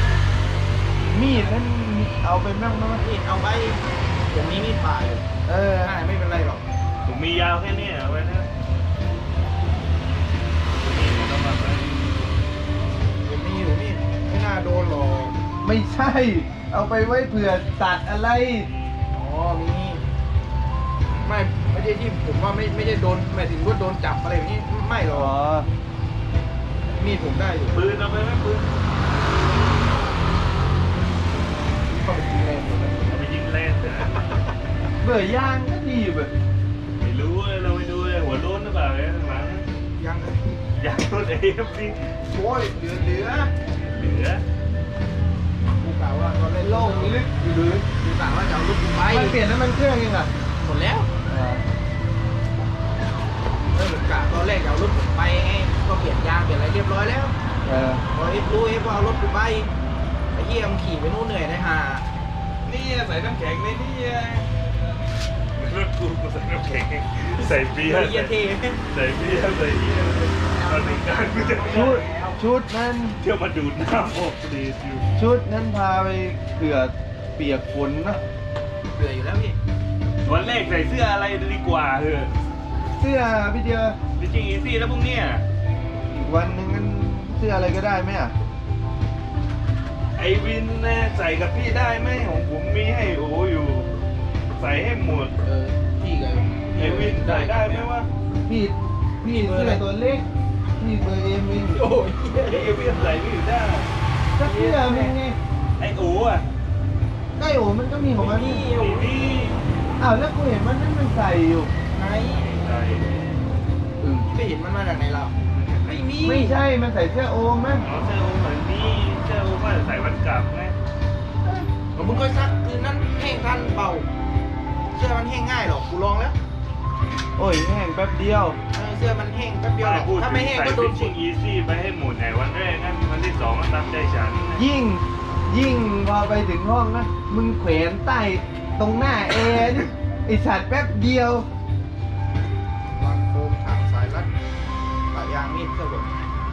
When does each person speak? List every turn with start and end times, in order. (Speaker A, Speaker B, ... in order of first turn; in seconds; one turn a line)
Speaker A: 1.1-3.0
Speaker B: 3.0-5.2
Speaker A: 5.5-5.9
Speaker B: 5.8-6.6
Speaker C: 7.0-8.5
Speaker C: 10.8-12.0
Speaker B: 13.2-15.3
Speaker A: 15.6-18.7
Speaker B: 19.1-20.0
Speaker B: 21.2-25.3
Speaker A: 25.1-25.7
Speaker B: 27.0-27.8
Speaker C: 27.7-28.6
Speaker B: 31.9-33.2
Speaker C: 33.1-34.3
Speaker A: 35.0-36.3
Speaker C: 37.0-39.6
Speaker B: 40.0-40.6
Speaker C: 40.8-42.0
Speaker A: 42.3-43.5
Speaker C: 43.7-44.4
Speaker B: 45.8-47.2
Speaker A: 46.6-47.9
Speaker B: 48.0-49.4
Speaker A: 49.1-50.3
Speaker B: 50.6-51.1
Speaker A: 51.3-51.6
Speaker B: 53.7-57.4
Speaker A: 57.6-58.0
Speaker B: 58.1-59.7
Speaker B: 60.3-62.1
Speaker C: 62.7-64.5
Speaker C: 65.6-72.1
Speaker B: 67.7-68.8
Speaker B: 70.1-72.4
Speaker A: 71.7-73.2
Speaker C: 73.2-75.1
Speaker A: 75.2-78.2
Speaker B: 78.9-79.6
Speaker C: 80.2-82.3
Speaker A: 83.0-84.0
Speaker C: 84.2-85.4
Speaker A: 86.1-88.3
Speaker C: 90.2-93.9
Speaker C: 94.5-95.3
Speaker B: 95.4-97.9
Speaker C: 96.8-98.1
Speaker A: 98.5-100.2
Speaker B: 99.3-99.8
Speaker A: 100.8-101.8
Speaker B: 101.7-102.9
Speaker C: 102.5-103.9
Speaker A: 104.3-105.4
Speaker B: 104.4-105.2
Speaker C: 105.8-106.5
Speaker A: 107.4-108.6
Speaker B: 108.2-109.5
Speaker C: 108.7-109.6
Speaker A: 110.0-111.7
Speaker B: 111.9-112.5
Speaker C: 112.3-113.3
Speaker A: 114.0-114.3
Speaker B: 114.1-115.3
Speaker C: 115.5-116.1
Speaker B: 115.9-116.6
Speaker A: 116.2-117.8
Speaker C: 117.8-120.8
Speaker B: 121.5-124.1
Speaker B: 125.0-126.4
Speaker A: 127.4-128.6
Speaker B: 128.7-131.1
Speaker C: 129.8-134.6
Speaker A: 134.6-141.5
Speaker B: 143.0-144.3
Speaker B: 145.1-146.2